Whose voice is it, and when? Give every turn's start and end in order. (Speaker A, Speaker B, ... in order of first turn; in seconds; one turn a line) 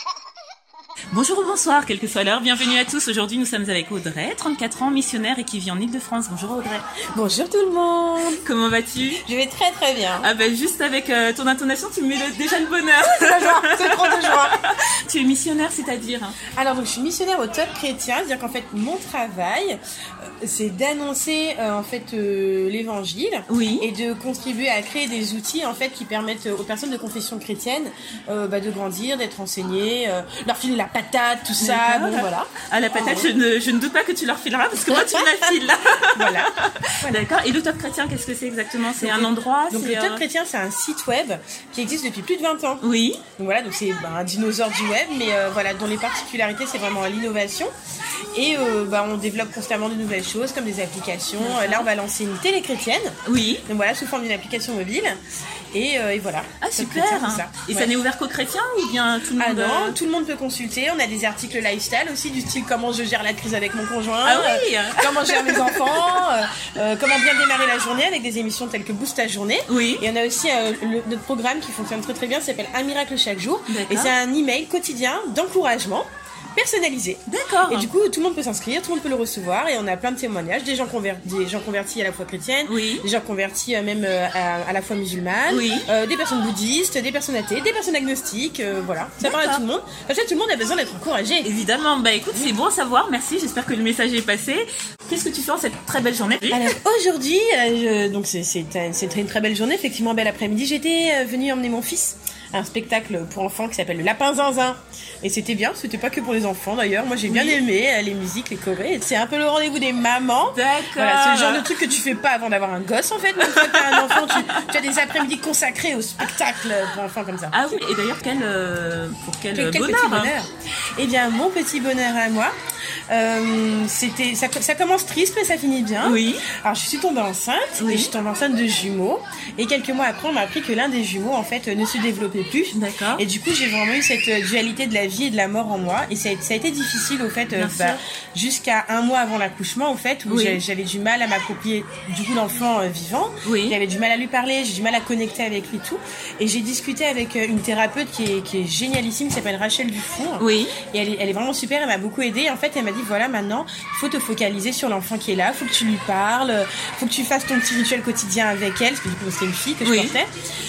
Speaker A: 1.1-6.8
Speaker B: 7.1-8.4
Speaker A: 8.4-9.2
Speaker B: 9.2-10.3
Speaker A: 10.2-16.4
Speaker B: 13.2-14.6
Speaker B: 16.6-19.8
Speaker B: 20.4-33.3
Speaker A: 23.5-23.9
Speaker A: 31.6-40.2
Speaker B: 34.9-35.6
Speaker B: 36.1-37.2
Speaker B: 39.0-42.8
Speaker A: 42.8-43.2
Speaker B: 43.4-47.7
Speaker B: 48.3-55.2
Speaker A: 51.4-51.9
Speaker A: 53.2-53.6
Speaker B: 55.7-57.9
Speaker A: 56.6-60.0
Speaker B: 59.4-91.5
Speaker A: 64.2-66.1
Speaker A: 69.7-70.0
Speaker A: 73.7-74.1
Speaker A: 77.3-77.9
Speaker A: 82.7-83.1
Speaker A: 85.5-85.9
Speaker A: 89.2-89.6
Speaker A: 91.4-96.7
Speaker B: 96.5-117.6
Speaker A: 107.3-107.6
Speaker A: 110.5-111.8
Speaker A: 113.5-114.5
Speaker A: 117.5-120.3
Speaker B: 119.5-122.5
Speaker B: 123.1-160.3
Speaker A: 126.0-126.5
Speaker A: 127.8-128.1
Speaker A: 132.7-133.2
Speaker A: 137.6-138.0
Speaker A: 140.3-140.6
Speaker A: 143.4-143.8
Speaker A: 150.4-150.8
Speaker A: 159.8-160.2